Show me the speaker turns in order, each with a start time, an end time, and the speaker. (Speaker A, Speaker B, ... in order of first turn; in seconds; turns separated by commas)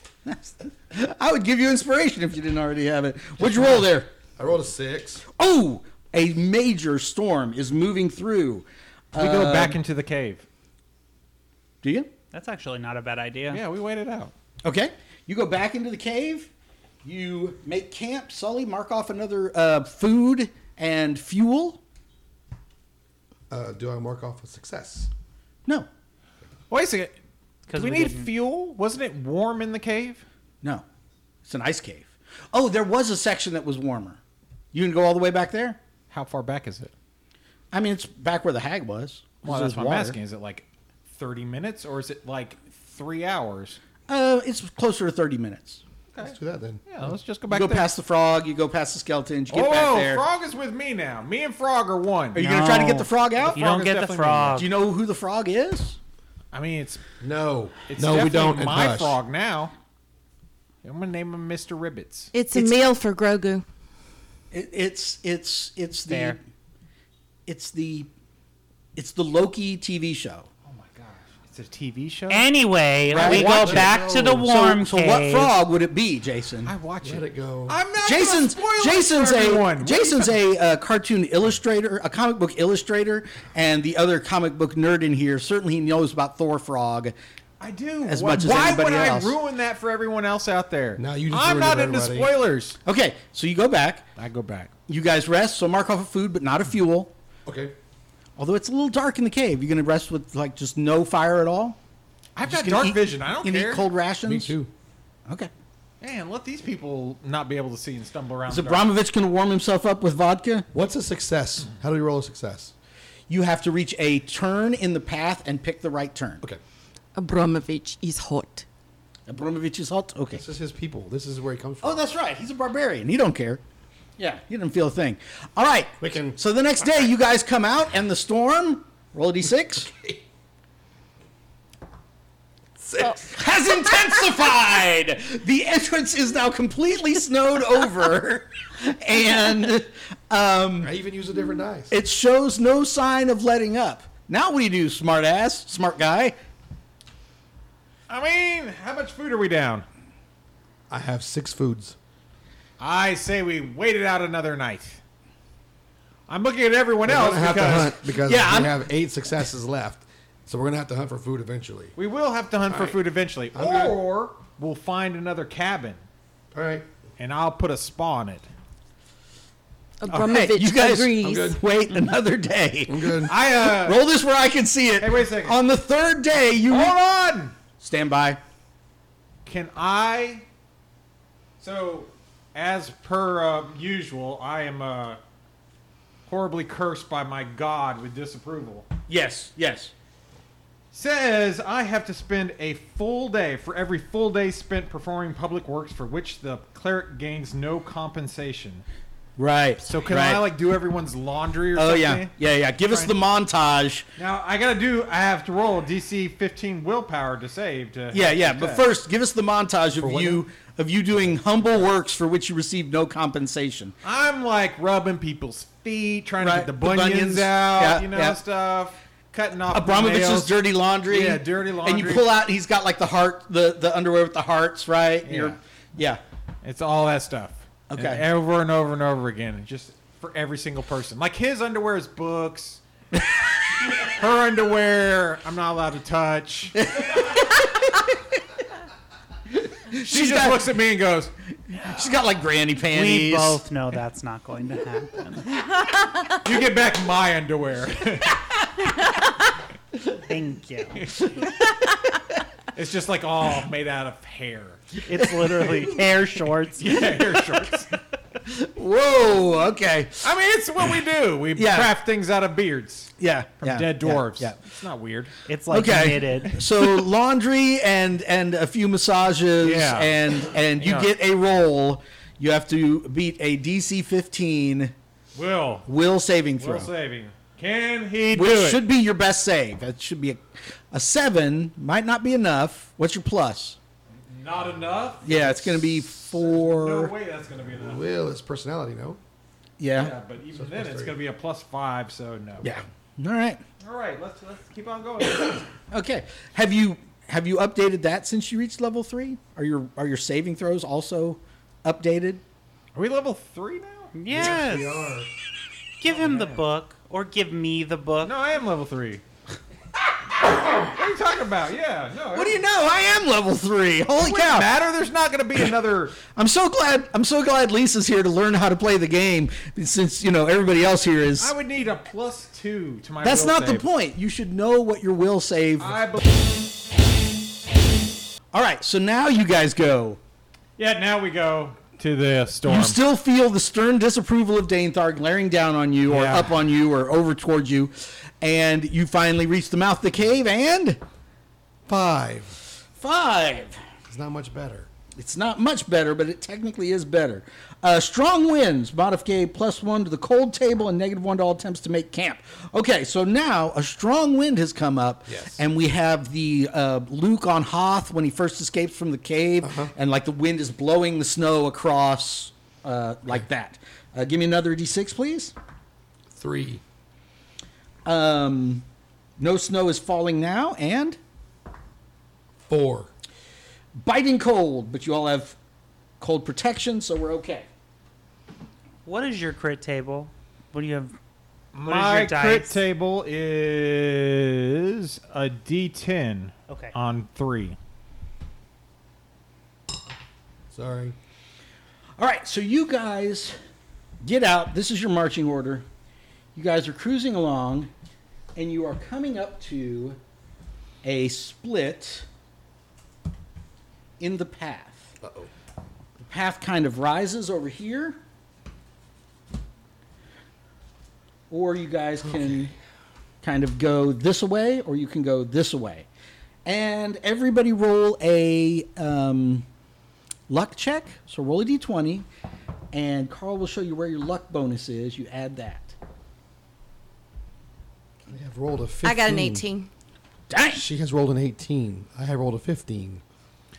Speaker A: 0.2-4.1, Speaker B: 4.4-5.2, Speaker A: 5.3-9.8, Speaker C: 9.2-10.4, Speaker A: 11.8-12.1, Speaker D: 12.3-13.6, Speaker C: 13.5-14.3, Speaker A: 14.6-16.5, Speaker A: 17.0-21.8, Speaker B: 23.5-25.1, Speaker C: 26.7-27.1, Speaker D: 27.7-28.3, Speaker C: 27.7-30.2, Speaker A: 31.4-34.2, Speaker A: 34.7-35.8, Speaker C: 36.1-36.9, Speaker A: 37.7-40.2, Speaker C: 39.4-43.8, Speaker A: 44.1-45.8, Speaker C: 46.1-47.9, Speaker B: 46.2-46.8, Speaker A: 47.5-50.2, Speaker C: 49.5-52.4, Speaker A: 52.3-53.6, Speaker D: 52.4-54.7, Speaker C: 53.4-54.6, Speaker A: 54.5-56.0, Speaker C: 56.5-57.0, Speaker B: 57.2-59.2, Speaker C: 57.9-59.7, Speaker C: 60.8-62.3, Speaker E: 62.3-63.6, Speaker A: 64.5-66.4, Speaker D: 66.1-66.4, Speaker A: 67.5-68.1, Speaker A: 69.0-70.5, Speaker C: 70.7-72.5, Speaker D: 72.3-75.5, Speaker A: 73.1-73.8, Speaker C: 73.1-73.9, Speaker B: 73.2-74.4, Speaker A: 74.4-76.7, Speaker C: 76.6-80.4, Speaker B: 77.0-77.8, Speaker A: 78.0-87.1, Speaker C: 87.6-92.8, Speaker A: 88.0-89.4, Speaker B: 91.0-92.3, Speaker A: 92.8-94.0, Speaker C: 94.2-94.7, Speaker A: 94.9-97.1, Speaker B: 97.5-97.7, Speaker A: 98.4-101.8, Speaker C: 102.3-103.9, Speaker A: 102.4-104.5, Speaker B: 104.2-104.7, Speaker C: 106.0-108.9, Speaker A: 108.5-110.7, Speaker B: 110.7-112.7, Speaker A: 113.3-116.4, Speaker E: 117.2-118.6, Speaker A: 119.3-120.4, Speaker B: 120.3-122.0, Speaker A: 121.8-123.6, Speaker A: 124.2-129.9, Speaker B: 126.0-126.4, Speaker B: 129.8-130.2, Speaker B: 132.8-133.7, Speaker A: 133.3-140.9, Speaker B: 140.8-141.9, Speaker A: 141.9-146.3, Speaker C: 148.1-149.8, Speaker B: 150.9-151.9, Speaker C: 152.8-155.0, Speaker C: 156.3-158.0, Speaker B: 157.0-161.9, Speaker A: 158.2-158.8, Speaker C: 161.9-166.0, Speaker B: 162.7-163.0, Speaker B: 163.5-164.0, Speaker B: 166.5-166.9, Speaker C: 167.2-168.4, Speaker E: 170.0-171.4, Speaker A: 170.1-176.9, Speaker B: 171.2-171.6, Speaker B: 172.9-173.3, Speaker C: 173.2-174.0, Speaker C: 175.0-175.6, Speaker C: 176.7-177.5, Speaker A: 177.8-178.4, Speaker C: 179.4-180.4, Speaker C: 181.6-185.2, Speaker C: 186.3-188.9, Speaker A: 189.1-189.9, Speaker C: 190.9-198.8, Speaker A: 199.4-200.5, Speaker C: 199.8-203.2, Speaker A: 201.7-204.1, Speaker C: 204.2-208.9, Speaker A: 208.1-213.9, Speaker B: 209.9-210.4, Speaker C: 214.0-222.3, Speaker A: 216.4-218.4, Speaker A: 219.7-226.2, Speaker C: 225.2-225.6, Speaker C: 226.6-232.8, Speaker A: 227.9-228.2, Speaker C: 234.0-236.9, Speaker A: 236.8-238.1, Speaker A: 239.9-240.6, Speaker C: 240.0-241.3, Speaker A: 241.7-243.6, Speaker D: 242.8-245.6, Speaker C: 246.3-248.5, Speaker D: 250.2-251.1, Speaker C: 251.0-251.3, Speaker C: 252.7-255.0, Speaker D: 255.1-257.2, Speaker C: 256.8-257.9, Speaker A: 258.5-260.2, Speaker C: 260.2-265.3, Speaker A: 261.5-261.9, Speaker A: 263.2-264.6, Speaker D: 265.5-266.6, Speaker A: 265.7-274.9, Speaker C: 269.6-271.1, Speaker C: 275.3-275.9, Speaker A: 275.9-276.9, Speaker C: 276.6-278.8, Speaker A: 278.3-283.8, Speaker C: 284.3-288.0, Speaker A: 285.2-287.1, Speaker B: 287.7-289.2, Speaker A: 289.8-290.1, Speaker C: 289.9-292.7, Speaker B: 290.5-291.1, Speaker A: 292.6-293.6, Speaker C: 293.8-295.6, Speaker A: 295.9-302.4, Speaker C: 302.9-304.1, Speaker D: 304.1-305.0, Speaker B: 304.3-305.3, Speaker D: 306.0-308.3, Speaker C: 306.0-306.6, Speaker C: 308.2-309.2, Speaker C: 310.6-312.6, Speaker A: 312.3-314.7, Speaker C: 314.2-316.2, Speaker A: 316.2-321.5, Speaker C: 321.4-323.8, Speaker A: 323.2-325.9, Speaker C: 325.8-326.2, Speaker A: 328.5-330.2, Speaker C: 330.8-333.0, Speaker A: 332.7-341.0, Speaker C: 336.1-336.6, Speaker B: 341.9-342.6, Speaker A: 343.0-343.8, Speaker B: 344.1-344.9, Speaker A: 345.1-365.5, Speaker B: 355.3-355.6, Speaker B: 359.6-359.9, Speaker B: 366.3-366.8, Speaker A: 368.0-368.8, Speaker A: 369.4-371.2, Speaker B: 372.6-373.1, Speaker A: 374.0-375.6, Speaker A: 376.2-377.7, Speaker D: 379.1-381.1, Speaker C: 381.7-387.8, Speaker D: 381.8-382.8, Speaker D: 386.7-386.9, Speaker B: 390.7-391.1, Speaker A: 392.2-393.6, Speaker A: 394.2-395.9, Speaker A: 396.5-397.9, Speaker A: 398.6-400.2, Speaker A: 401.0-402.3, Speaker A: 404.2-405.1, Speaker B: 405.2-405.5, Speaker A: 406.2-408.2, Speaker A: 411.5-412.7, Speaker B: 412.2-412.7, Speaker A: 413.4-416.1, Speaker A: 416.6-419.6, Speaker A: 420.5-422.2, Speaker A: 422.9-425.9, Speaker B: 428.3-429.6, Speaker E: 429.0-429.9, Speaker A: 430.5-430.8, Speaker B: 430.7-433.2